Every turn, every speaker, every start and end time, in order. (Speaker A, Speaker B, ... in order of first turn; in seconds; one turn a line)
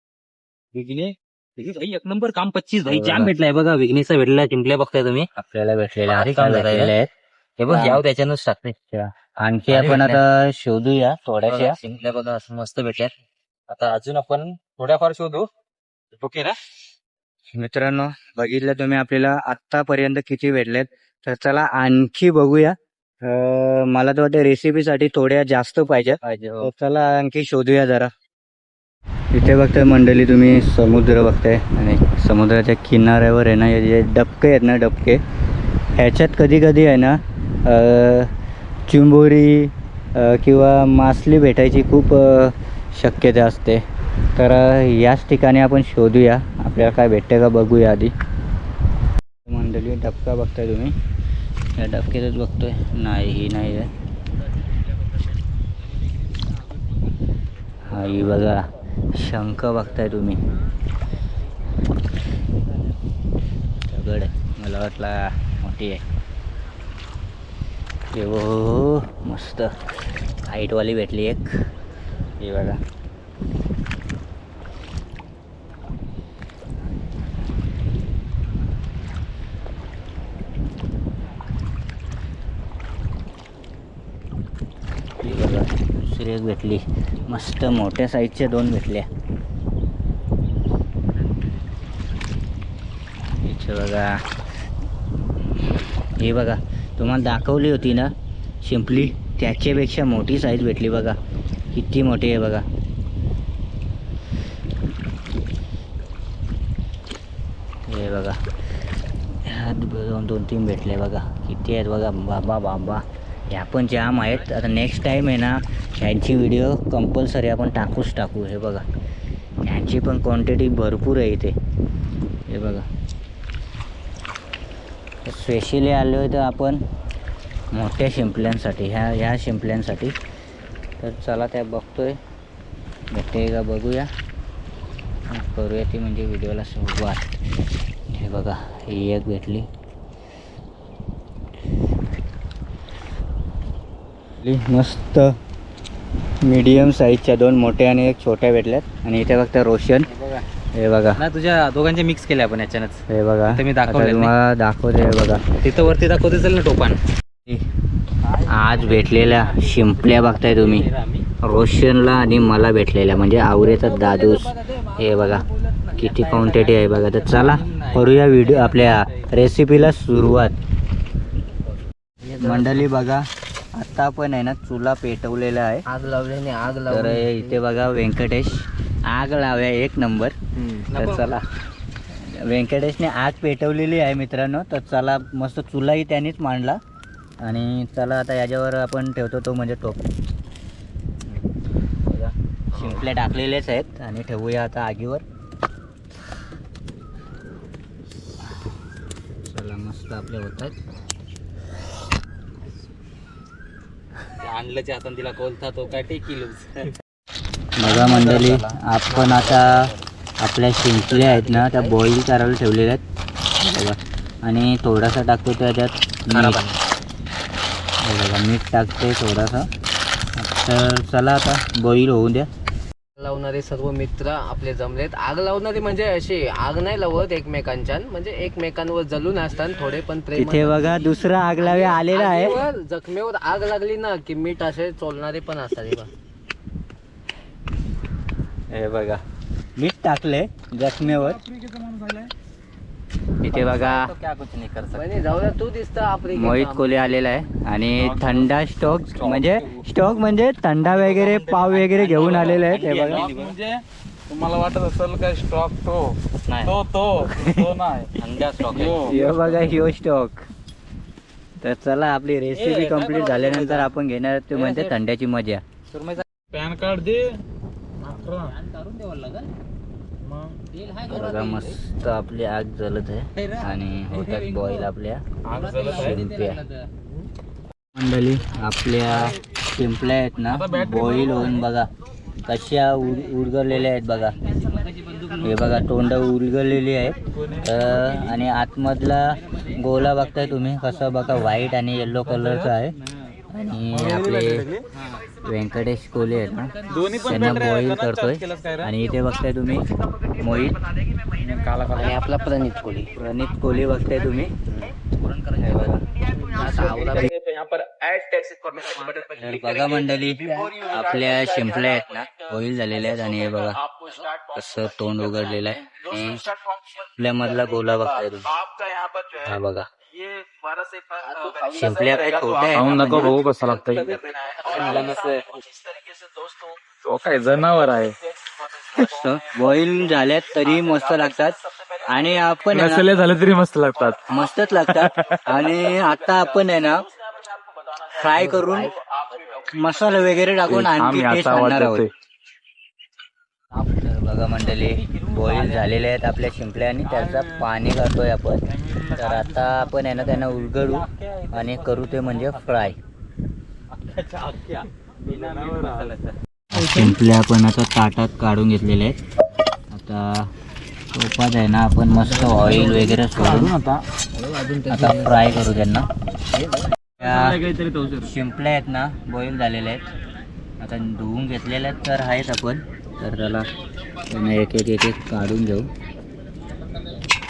Speaker A: 0.7-5.3
Speaker B: 2.9-3.3
Speaker B: 5.4-7.1
Speaker A: 6.1-7.0
Speaker A: 7.6-8.8
Speaker B: 7.7-8.0
Speaker B: 8.9-11.8
Speaker A: 9.7-10.2
Speaker A: 11.5-13.1
Speaker A: 13.7-15.5
Speaker A: 16.2-16.6
Speaker B: 17.6-28.1
Speaker B: 29.3-35.2
Speaker B: 36.0-38.3
Speaker B: 38.9-43.8
Speaker B: 44.4-48.1
Speaker B: 49.5-51.0
Speaker B: 51.8-53.9
Speaker B: 57.9-60.4
Speaker B: 63.9-66.0
Speaker B: 68.1-69.7
Speaker B: 70.5-71.5
Speaker B: 72.4-72.8
Speaker B: 85.2-89.1
Speaker B: 93.4-94.2
Speaker B: 96.2-101.2
Speaker B: 101.7-102.6
Speaker B: 107.9-108.4
Speaker B: 109.5-118.8
Speaker B: 119.7-121.5
Speaker B: 122.5-122.8
Speaker B: 125.2-126.8
Speaker B: 127.8-130.1
Speaker B: 131.0-132.2
Speaker B: 133.1-134.1
Speaker B: 135.3-137.3
Speaker B: 138.1-139.7
Speaker B: 144.4-145.3
Speaker B: 146.4-150.1
Speaker A: 150.1-150.4
Speaker B: 150.8-151.2
Speaker A: 151.2-154.3
Speaker B: 153.1-155.4
Speaker A: 155.6-157.0
Speaker A: 158.3-161.3
Speaker B: 158.5-160.9
Speaker B: 161.4-165.5
Speaker A: 163.9-164.2
Speaker A: 165.8-169.3
Speaker B: 166.0-170.6
Speaker C: 172.2-172.9
Speaker B: 172.4-175.8
Speaker C: 175.9-177.6
Speaker B: 176.9-180.4
Speaker A: 180.9-181.4
Speaker B: 180.9-181.4
Speaker B: 182.1-186.8
Speaker B: 187.4-190.0
Speaker B: 192.1-195.2
Speaker B: 199.5-200.8
Speaker A: 204.4-206.9
Speaker B: 207.8-213.0
Speaker A: 207.8-209.8
Speaker C: 211.1-212.0
Speaker B: 213.6-216.6
Speaker A: 216.3-216.8
Speaker B: 218.0-219.7
Speaker B: 220.4-222.5
Speaker C: 223.2-236.1
Speaker B: 230.3-232.6
Speaker B: 238.7-239.2
Speaker B: 239.8-241.4
Speaker D: 241.5-242.1
Speaker B: 243.4-244.1
Speaker A: 243.5-245.4
Speaker C: 244.9-247.0
Speaker B: 246.3-253.2
Speaker D: 248.0-248.4
Speaker A: 249.2-249.8
Speaker A: 250.8-253.6
Speaker D: 252.2-258.1
Speaker A: 256.5-256.8
Speaker B: 257.2-257.7
Speaker A: 258.2-259.3
Speaker D: 258.7-259.2
Speaker B: 258.9-260.5
Speaker B: 261.6-265.6
Speaker A: 262.5-263.9
Speaker A: 264.5-265.0
Speaker A: 265.9-266.2
Speaker D: 266.5-267.4
Speaker D: 268.0-268.5
Speaker A: 268.1-269.5
Speaker D: 270.2-270.5
Speaker A: 270.7-271.8
Speaker B: 271.1-275.2
Speaker A: 273.4-274.9
Speaker D: 275.5-276.3
Speaker A: 275.5-276.9
Speaker B: 275.9-276.6
Speaker B: 277.9-281.9
Speaker D: 280.5-281.6
Speaker B: 282.5-284.4
Speaker A: 284.5-285.8
Speaker B: 285.4-292.9
Speaker D: 287.3-288.4
Speaker A: 289.7-290.5
Speaker D: 292.4-292.7
Speaker B: 293.5-294.7
Speaker D: 293.9-294.9
Speaker B: 295.4-300.8
Speaker A: 296.9-297.5
Speaker D: 296.9-298.9
Speaker D: 301.4-302.2
Speaker C: 301.9-303.1
Speaker B: 303.2-304.5
Speaker A: 304.9-306.1
Speaker B: 305.6-306.1
Speaker C: 306.4-307.3
Speaker D: 307.2-309.1
Speaker A: 308.8-309.3
Speaker B: 309.4-316.5
Speaker C: 310.6-310.9
Speaker B: 317.1-318.5
Speaker B: 319.4-319.9
Speaker B: 321.6-323.4
Speaker D: 322.6-324.3
Speaker A: 324.7-325.5
Speaker C: 324.8-325.0
Speaker D: 327.0-328.1
Speaker B: 328.9-333.1
Speaker D: 332.7-334.3
Speaker B: 334.3-337.1
Speaker D: 334.9-335.5
Speaker B: 338.1-338.9
Speaker B: 339.6-342.1
Speaker D: 340.7-342.1
Speaker B: 343.9-348.6
Speaker A: 345.2-345.9
Speaker D: 347.1-347.7
Speaker D: 348.7-350.8
Speaker B: 349.1-353.0
Speaker A: 350.8-352.9
Speaker A: 354.0-356.4
Speaker D: 355.3-356.1
Speaker B: 356.7-359.2
Speaker B: 359.9-360.5
Speaker B: 361.1-363.7
Speaker C: 362.2-365.9
Speaker B: 364.9-366.1
Speaker B: 367.2-367.6
Speaker D: 367.4-368.2
Speaker B: 368.2-370.1
Speaker B: 370.8-373.7
Speaker B: 374.3-375.9